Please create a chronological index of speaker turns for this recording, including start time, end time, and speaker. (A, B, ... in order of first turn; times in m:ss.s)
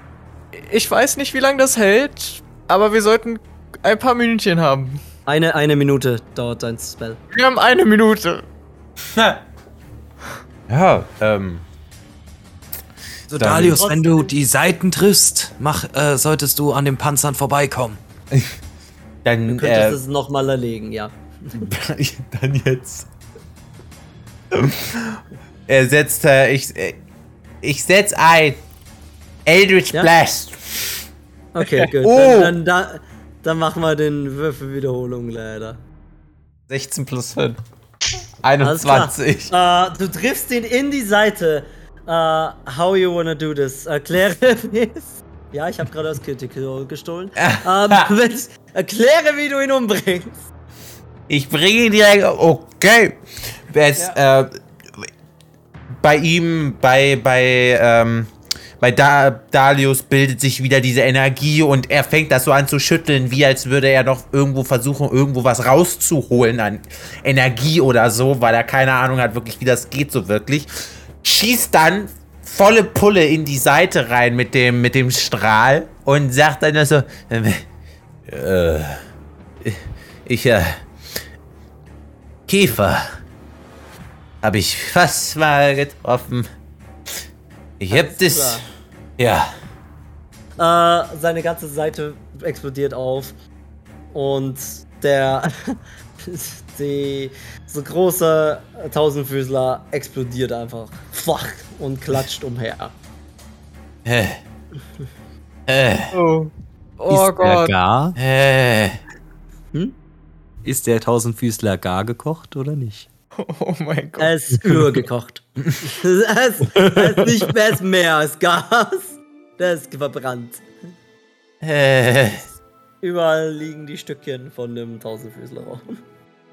0:00.5-0:05.0 A
0:05.2-0:07.2 B
0:07.3-0:08.4 A
0:09.1-0:09.4 C
0:10.7-0:11.6 C
0:13.3-0:18.0 D
0:13.3-0:13.9 C
0:13.6-0:14.3 B
0:18.3-0:18.6 C
0:19.2-0:20.0 C
0:19.5-0:21.7 B
0:21.5-0:23.1 C
0:24.5-0:27.0 C
0:27.6-0:28.6 C
0:29.4-0:31.0 C
0:31.5-0:35.8 B
0:31.8-0:32.5 C
0:36.7-0:37.6 C
0:38.4-0:39.5 C
0:38.6-0:50.5 B
0:47.4-0:48.1 C
0:51.3-0:55.1 C
0:56.0-1:17.7 C
1:18.2-1:19.0 C
1:19.6-1:21.2 C
1:22.5-1:23.2 C
1:24.4-1:26.5 C
1:27.8-1:28.6 C
1:27.9-1:28.6 B
1:29.2-1:29.5 C
1:30.6-1:33.3 B
1:34.1-1:42.9 B
1:44.0-1:44.4 C
1:45.7-1:46.2 C
1:46.1-1:47.7 A
1:47.4-1:48.2 E
1:48.2-1:49.0 C
1:50.6-1:53.1 E
1:53.4-1:54.7 A
1:54.2-2:00.6 B
1:56.7-1:57.5 E
2:01.6-2:02.5 C
2:03.0-2:06.0 B